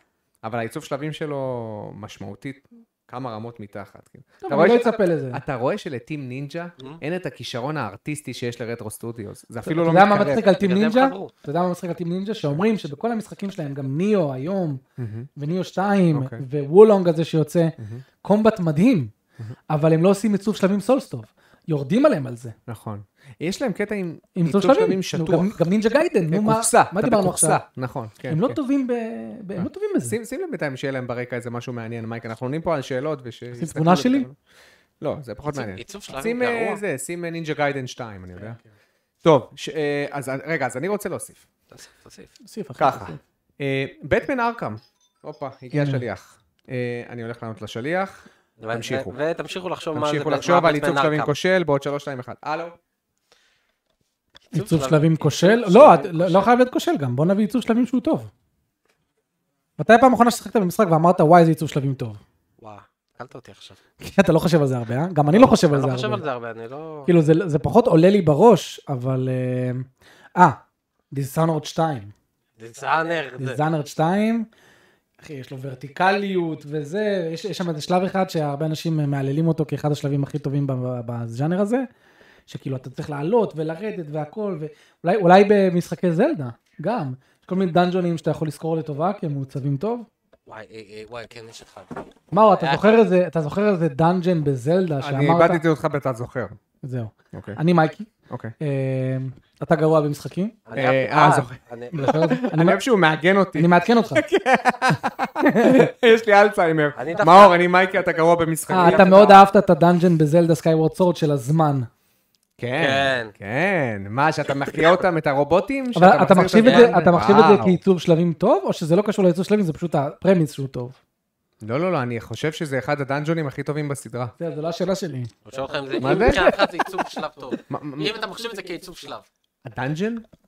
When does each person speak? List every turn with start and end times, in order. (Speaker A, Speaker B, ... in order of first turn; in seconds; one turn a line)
Speaker A: 0.4-10.4
Speaker B: 4.4-5.4
Speaker B: 9.7-14.8
Speaker C: 10.3-11.3
Speaker A: 15.0-15.3
Speaker B: 15.3-19.1
Speaker A: 16.1-16.4
Speaker A: 17.8-18.0
Speaker B: 19.7-22.5
Speaker A: 22.7-25.6
Speaker B: 24.4-27.6
Speaker A: 26.3-28.6
Speaker B: 28.3-30.1
Speaker A: 29.6-34.4
Speaker B: 33.5-34.3
Speaker A: 35.0-38.6
Speaker C: 35.5-36.8
Speaker A: 39.2-41.5
Speaker C: 41.7-42.3
Speaker B: 42.4-43.2
Speaker A: 42.8-49.1
Speaker B: 45.7-46.0
Speaker C: 48.6-51.3
Speaker A: 49.9-52.8
Speaker B: 54.5-58.3
Speaker C: 54.5-56.5
Speaker B: 59.8-62.2
Speaker C: 62.6-63.8
Speaker B: 64.0-66.2
Speaker C: 65.3-67.1
Speaker B: 67.0-70.6
Speaker B: 71.1-72.1
Speaker C: 72.6-73.6
Speaker B: 73.4-74.5
Speaker B: 75.2-81.9
Speaker B: 82.5-90.1
Speaker C: 90.5-93.0
Speaker B: 92.3-95.6
Speaker A: 95.0-96.6
Speaker B: 96.8-100.6
Speaker A: 97.3-97.6
Speaker A: 98.3-98.5
Speaker C: 100.7-102.2
Speaker A: 100.8-109.4
Speaker B: 101.9-102.8
Speaker B: 103.5-104.2
Speaker B: 105.4-105.8
Speaker C: 107.0-107.6
Speaker B: 108.7-111.9
Speaker C: 108.8-109.3
Speaker A: 112.6-117.8
Speaker C: 112.8-113.3
Speaker B: 116.0-121.0
Speaker C: 116.5-117.5
Speaker A: 121.6-124.3
Speaker B: 124.4-125.3
Speaker C: 125.4-129.2
Speaker A: 126.0-126.5
Speaker B: 126.0-127.0
Speaker A: 127.7-128.1
Speaker A: 129.6-130.2